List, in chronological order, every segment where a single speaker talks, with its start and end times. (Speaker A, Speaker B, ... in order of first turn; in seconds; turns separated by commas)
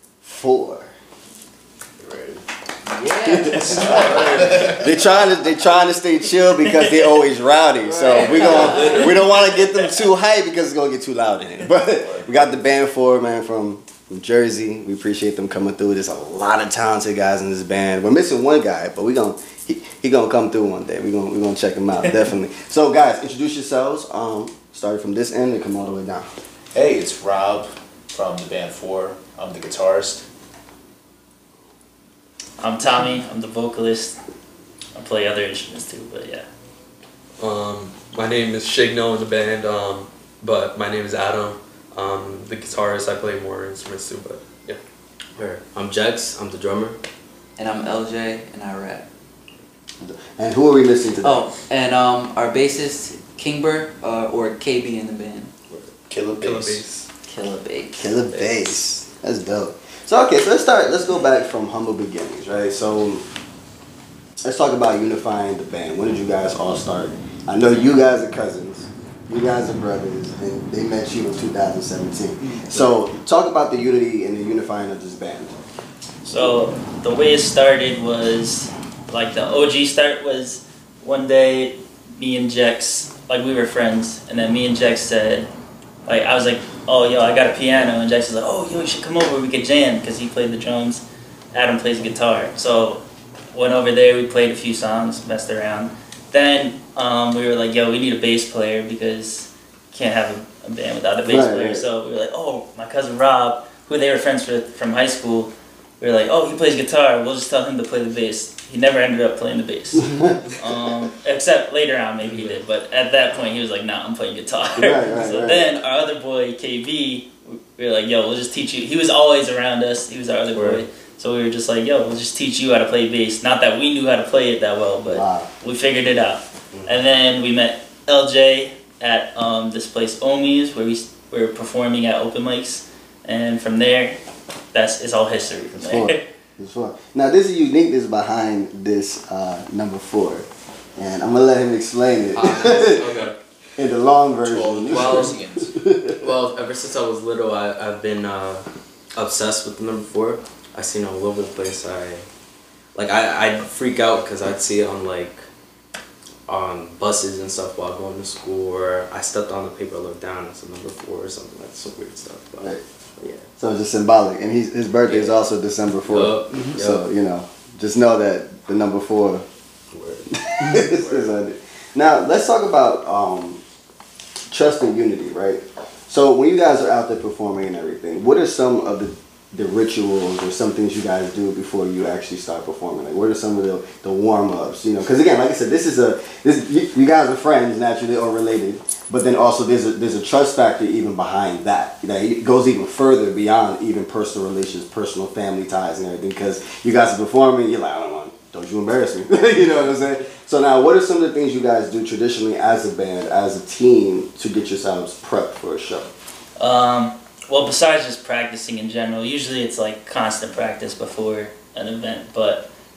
Speaker A: 0.2-0.9, Speaker B: 2.0-2.4, Speaker C: 2.9-4.7, Speaker A: 3.2-26.3, Speaker B: 3.5-4.9, Speaker C: 7.8-9.2, Speaker B: 8.2-9.2, Speaker B: 26.7-30.3, Speaker D: 32.6-34.2, Speaker D: 34.9-36.5, Speaker E: 37.4-44.8, Speaker F: 45.4-47.0, Speaker C: 47.6-49.1, Speaker A: 50.0-51.5, Speaker C: 51.2-55.5, Speaker B: 56.1-56.8, Speaker E: 56.4-57.1, Speaker C: 57.2-58.2, Speaker A: 58.0-63.2, Speaker A: 64.4-75.5, Speaker D: 76.2-85.5, Speaker D: 86.0-93.0, Speaker D: 93.5-134.2, Speaker A: 101.3-101.8, Speaker A: 110.1-110.3, Speaker A: 114.8-115.6, Speaker F: 120.5-120.8, Speaker A: 125.1-125.5, Speaker F: 126.7-127.0, Speaker D: 134.7-136.2, Speaker A: 135.7-143.0, Speaker F: 142.3-143.4, Speaker E: 142.6-143.3, Speaker A: 143.8-146.2, Speaker B: 144.4-145.7, Speaker F: 144.9-145.4, Speaker F: 146.2-152.2, Speaker F: 152.9-155.4, Speaker F: 156.5-163.5, Speaker A: 163.6-169.4, Speaker F: 165.1-165.4, Speaker F: 166.1-167.0, Speaker F: 169.9-171.3, Speaker A: 170.3-173.6, Speaker A: 174.5-206.1, Speaker D: 206.6-212.7